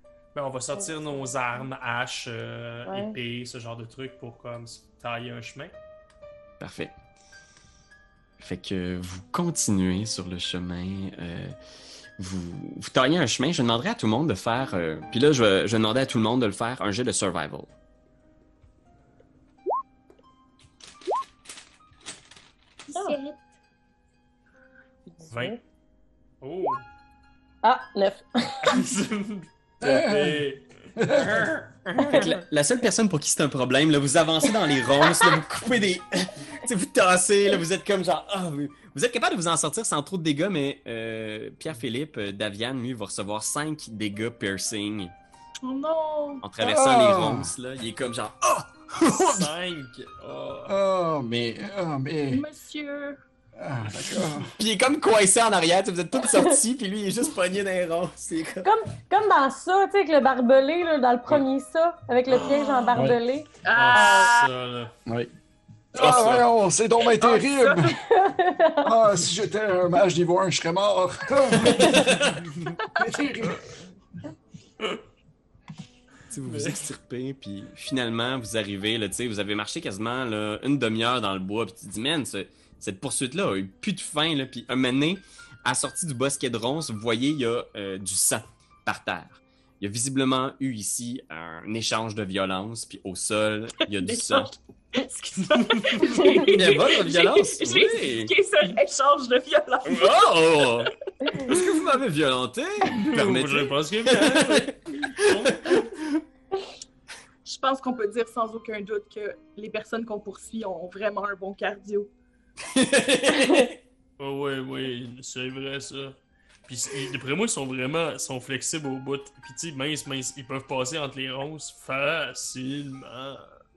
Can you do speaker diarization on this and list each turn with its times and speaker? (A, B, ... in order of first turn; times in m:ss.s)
0:00.3-0:05.8 A
0:00.8-0:01.3 B
0:02.9-0:03.2 B
0:06.6-0:06.9 C
0:08.4-0:11.6 C
0:12.2-0:17.7 C
0:22.9-0:23.5 D
0:25.2-0:25.6 B
0:25.3-0:25.6 A
0:26.4-0:26.8 A
0:27.6-0:28.8 B
0:28.7-0:31.5 A
0:29.8-0:31.7 E
0:32.0-0:45.1 C
0:32.0-0:32.3 B
0:34.9-0:35.2 B
0:45.6-0:46.4 D
0:46.4-0:49.5 C
0:46.6-0:47.6 E
0:49.1-0:50.8 A
0:50.6-0:52.4 E
0:52.3-0:53.2 D
0:53.6-0:54.5 E
0:54.6-0:58.7 C
0:58.6-1:04.3 B
1:02.9-1:03.2 E
1:03.6-1:04.5 D
1:03.7-1:04.9 A
1:05.1-1:05.3 E
1:05.9-1:08.0 E
1:06.0-1:06.4 A
1:07.2-1:07.9 D
1:07.9-1:08.9 B
1:08.8-1:12.3 E
1:12.9-1:13.6 E
1:16.3-1:34.6 C
1:16.4-1:16.8 A
1:34.0-1:40.9 D
1:36.4-1:38.3 C
1:39.8-1:46.2 C
1:43.0-1:45.7 A
1:47.4-1:52.1 D
1:52.7-1:53.8 C
1:54.2-2:03.5 A